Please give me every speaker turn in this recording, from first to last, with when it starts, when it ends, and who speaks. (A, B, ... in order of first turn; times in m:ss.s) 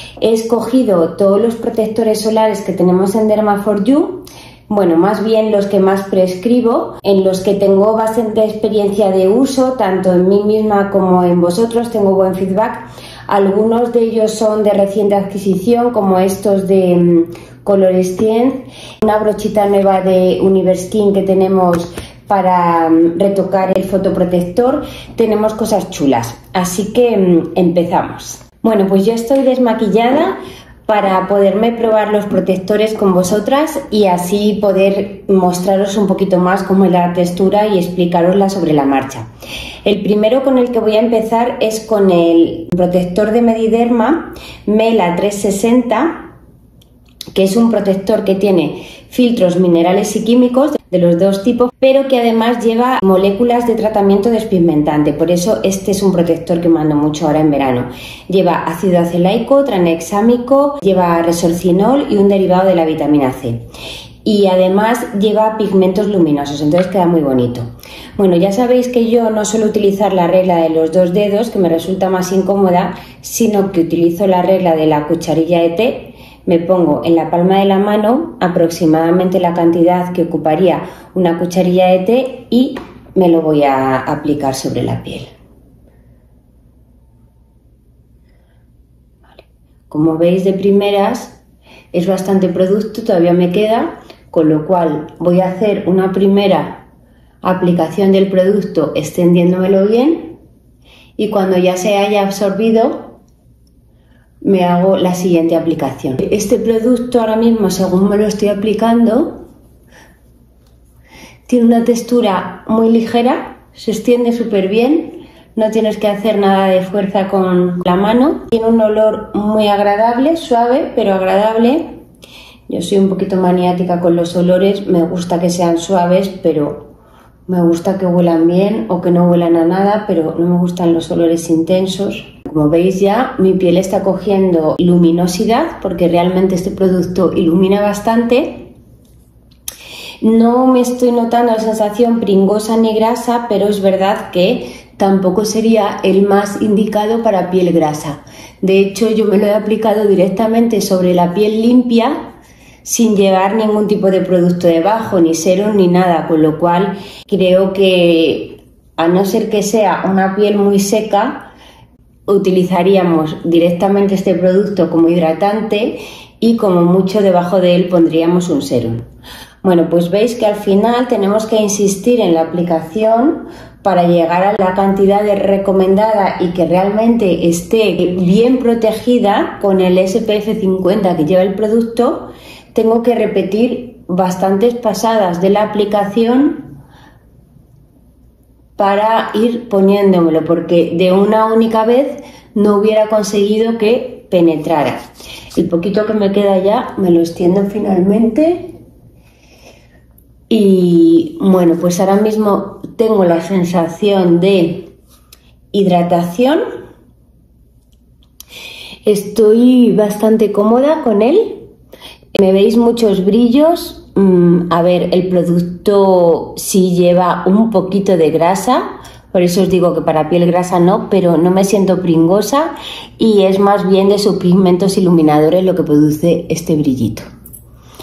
0:00.2-0:39.3 A
0:39.8-0:46.3 A
0:47.3-1:03.6 A
1:04.2-1:07.6 A
1:08.2-1:25.3 A
1:29.3-1:31.4 A
1:31.9-1:36.9 A
1:37.4-1:40.4 A
1:41.2-1:43.2 A
1:44.4-1:49.4 A
1:51.5-2:01.8 A
2:02.7-2:06.9 A
2:07.5-2:18.7 A
2:20.2-2:41.5 A
2:42.3-2:49.0 A
2:49.6-3:06.7 A
3:08.8-3:15.0 A
3:15.6-3:18.7 A
3:20.5-3:24.9 A
3:25.7-3:26.6 A
3:29.0-3:31.6 A
3:32.3-3:47.3 A